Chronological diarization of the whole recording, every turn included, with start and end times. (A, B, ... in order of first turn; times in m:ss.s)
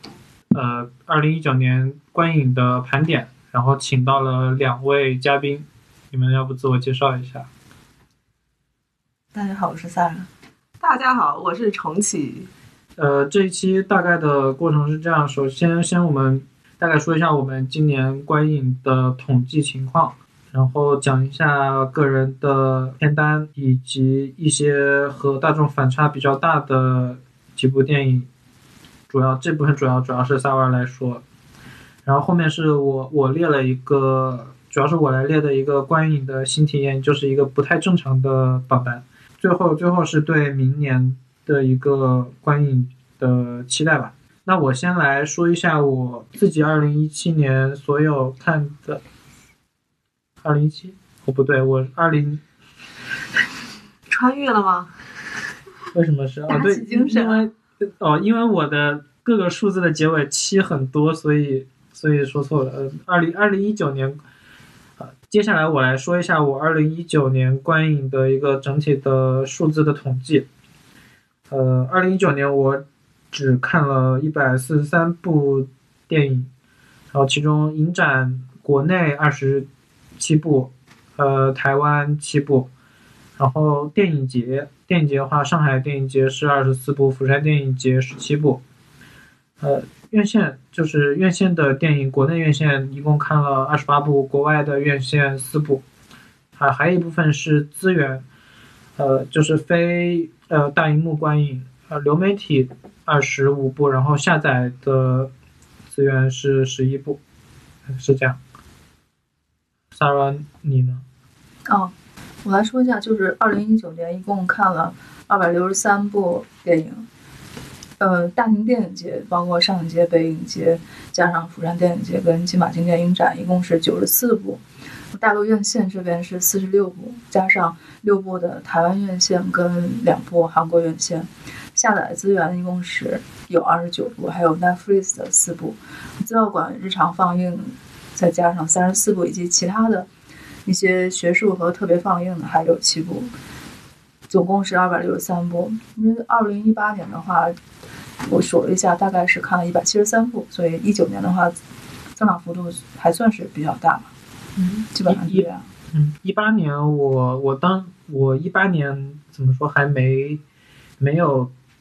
0:00.5-0:07.5 A
0:09.3-0:10.3 B
0:10.8-0:12.5 C
0:13.0-0:28.3 A
0:29.1-0:31.2 A
0:32.0-0:49.0 A
0:50.4-0:52.4 A
0:54.1-0:54.9 C
0:55.9-1:04.2 A
0:56.5-0:57.5 B
1:05.0-1:10.5 A
1:11.5-1:16.5 A
1:17.1-1:19.7 A
1:20.2-1:22.7 A
1:23.4-1:28.6 A
1:29.6-1:35.8 A
1:36.6-1:38.2 A
1:39.0-1:45.3 A
1:45.9-1:47.2 A
1:47.9-1:48.4 A
1:49.9-1:51.0 A
1:51.7-1:51.9 B
1:52.4-1:57.0 B
1:58.0-2:04.6 B
2:05.1-2:20.1 B
2:20.6-2:23.3 B
2:24.3-2:27.5 B
2:28.2-2:31.6 B
2:32.2-2:34.1 B
2:34.8-2:35.6 B
2:35.0-2:40.4 A
2:41.0-2:41.5 A